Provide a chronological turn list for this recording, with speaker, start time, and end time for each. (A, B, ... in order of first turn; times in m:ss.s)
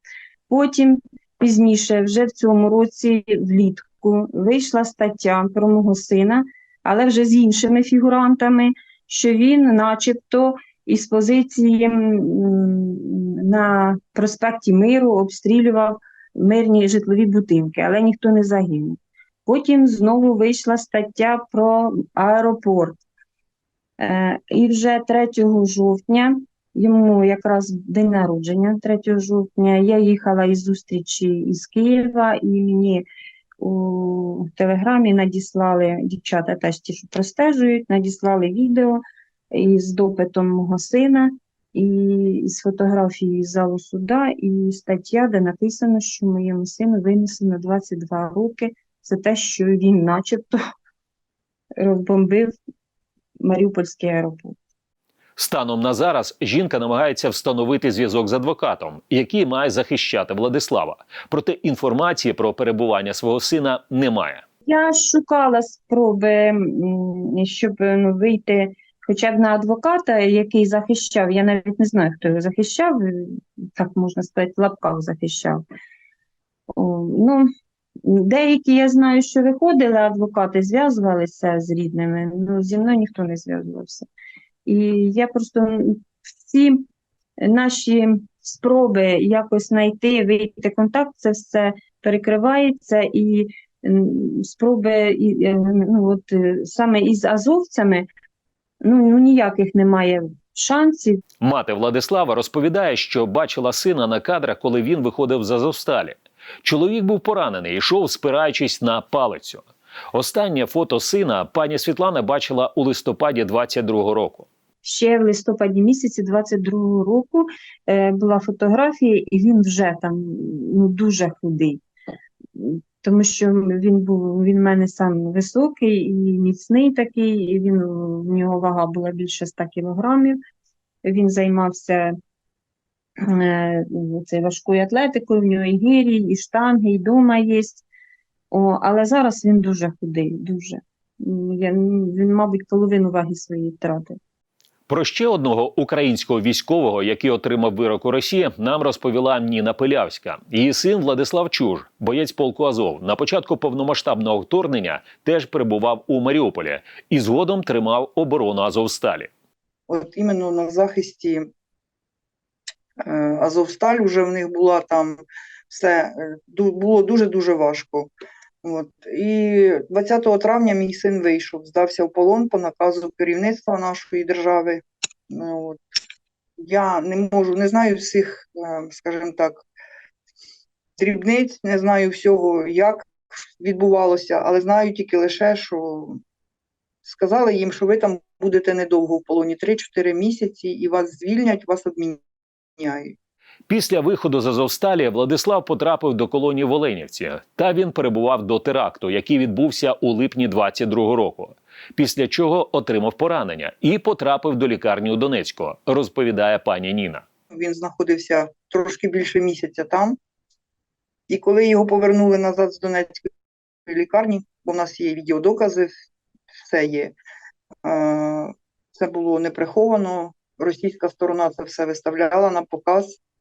0:00.5-0:23.0 A
0:24.0-0:33.0 A
0:33.6-0:39.0 A
0:39.5-0:50.6 A
0:51.8-0:52.6 A
0:53.4-0:54.6 A
0:55.4-1:04.4 B
1:04.7-1:15.6 A
1:16.7-1:17.5 A
1:18.0-1:24.1 A
1:24.6-1:26.8 A
1:27.4-1:38.1 A
1:38.8-1:41.2 A
1:41.4-1:54.5 B
1:54.8-2:01.8 A
2:02.6-2:10.4 A
2:11.0-2:12.2 A
2:13.2-2:17.8 A
2:18.5-2:24.2 A
2:24.9-2:39.3 B
2:39.9-2:41.5 C
2:43.1-2:45.2 C
2:45.7-2:48.1 C
2:48.6-2:55.8 C
2:56.6-2:59.6 C
3:01.0-3:06.2 C
3:07.0-3:12.2 C
3:12.8-3:13.2 C
3:13.7-3:27.2 B
3:27.5-3:30.2 C
3:31.3-3:33.3 C
3:33.9-3:35.9 C
3:36.6-3:37.2 C
3:37.8-3:43.2 C